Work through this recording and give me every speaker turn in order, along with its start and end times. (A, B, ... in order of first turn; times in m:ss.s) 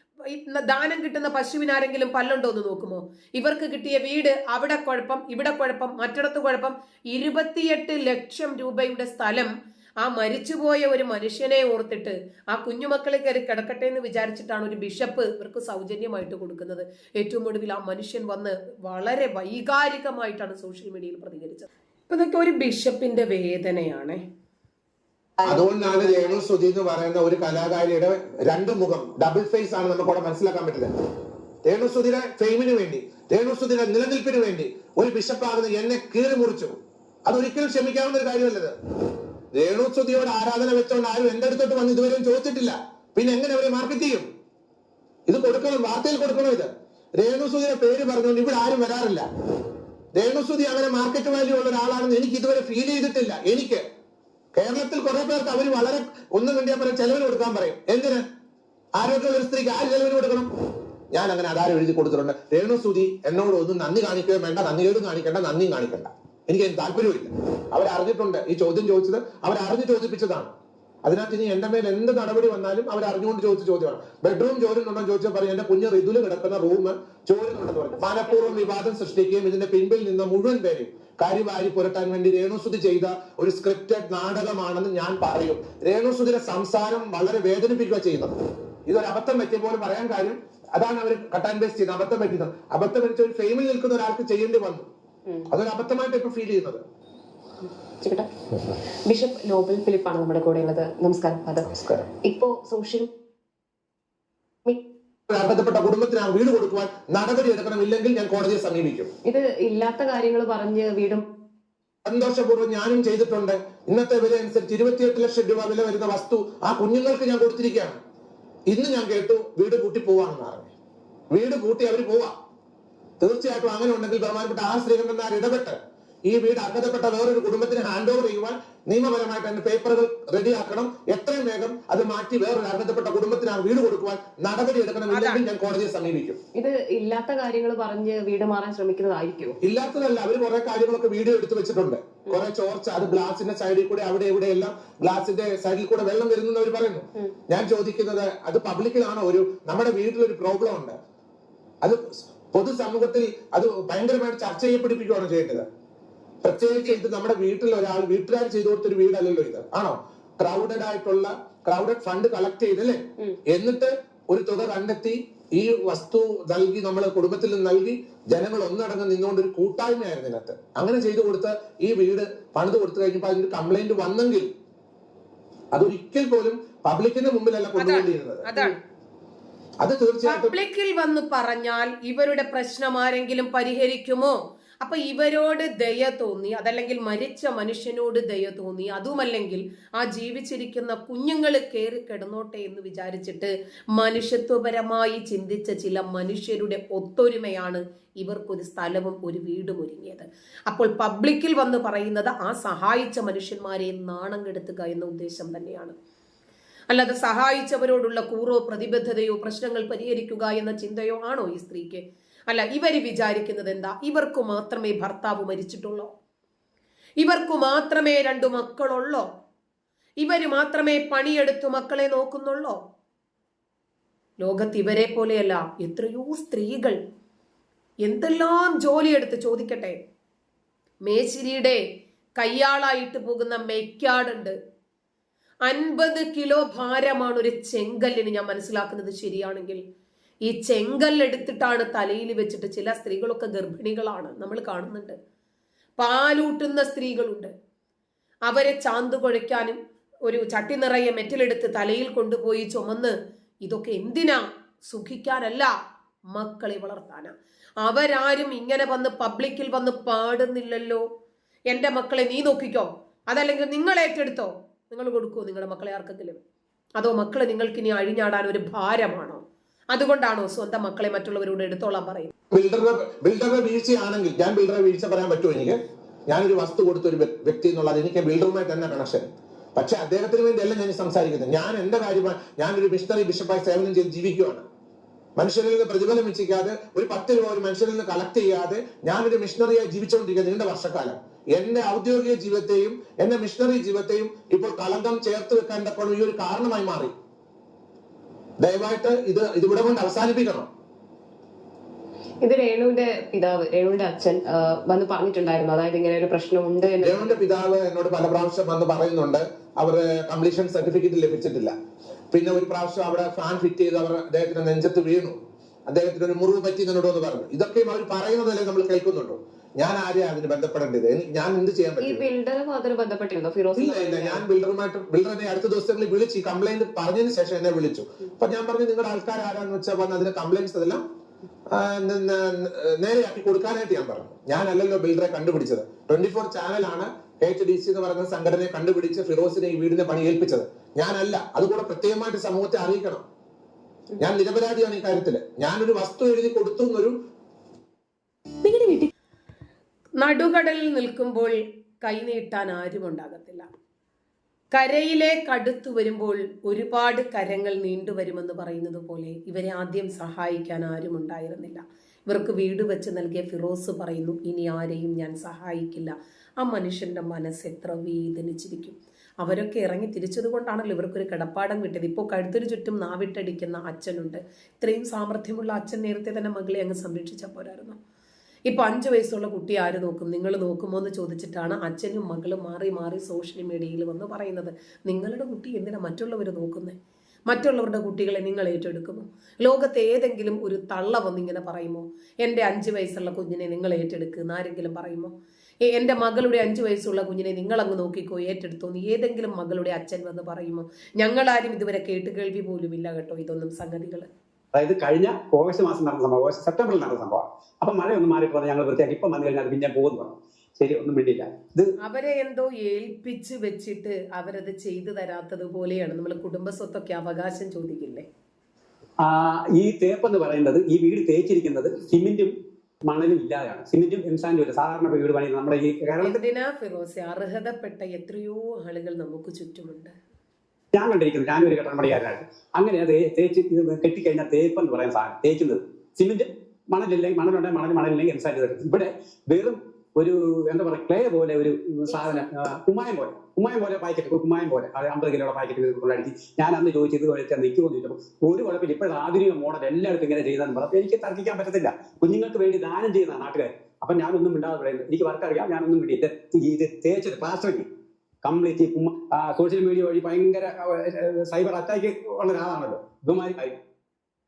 0:00.3-0:24.2 A
0:25.4-0:26.4 B
0:25.4-0:30.9 C
0:31.7-0:36.8 C
0:37.3-0:38.7 C
0:39.5-0:44.3 C
0:45.3-0:49.3 C
0:50.2-0:53.8 C
0:54.5-0:58.2 C
0:59.0-1:00.5 C
1:01.1-1:10.5 C
1:11.0-1:28.4 C
1:28.9-1:34.9 C
1:35.5-1:36.8 C
1:38.0-1:38.3 B
1:39.1-1:43.1 B
1:41.7-1:42.1 C
1:45.3-1:49.1 C
1:49.2-1:51.3 B
1:52.0-1:58.0 C
1:58.7-2:00.7 C
2:01.3-2:02.3 C
2:03.2-2:16.4 C
2:15.1-2:15.4 A
2:16.6-2:19.6 B
2:19.6-2:31.0 C
2:31.8-2:35.7 C
2:36.4-2:54.5 C
2:55.7-2:58.5 C
2:57.8-2:58.7 A
2:59.8-3:00.6 C
3:00.3-3:26.0 A
3:26.9-3:36.1 A
3:37.2-3:39.3 A
3:40.2-3:42.8 A
3:44.4-3:47.0 A
3:48.0-3:50.0 A
3:51.0-3:51.8 A
3:52.4-3:54.5 A
3:55.6-3:59.8 A
4:00.4-4:05.2 A
4:06.0-4:07.5 A
4:08.5-4:15.7 A
4:16.3-4:21.0 A
4:21.7-4:26.4 A
4:27.0-4:32.3 A
4:32.5-4:44.6 C
4:45.4-4:57.1 C
4:58.6-5:00.7 C
5:02.4-5:07.3 B
5:07.0-5:11.7 C
5:12.3-5:15.4 C
5:15.9-5:22.2 C
5:22.0-5:24.4 B
5:23.8-5:31.0 C
5:31.7-5:43.2 C
5:44.2-5:47.2 C
5:48.7-5:48.9 B
5:50.2-5:53.6 A
5:54.7-6:18.0 A
6:18.7-6:27.0 A
6:27.5-6:35.3 A
6:35.9-6:44.3 A
6:44.7-6:51.9 D
6:52.0-6:58.3 A
6:59.2-7:02.5 D
7:03.1-7:06.4 D
7:06.2-7:10.1 A
7:10.9-7:37.9 D
7:38.4-7:43.8 D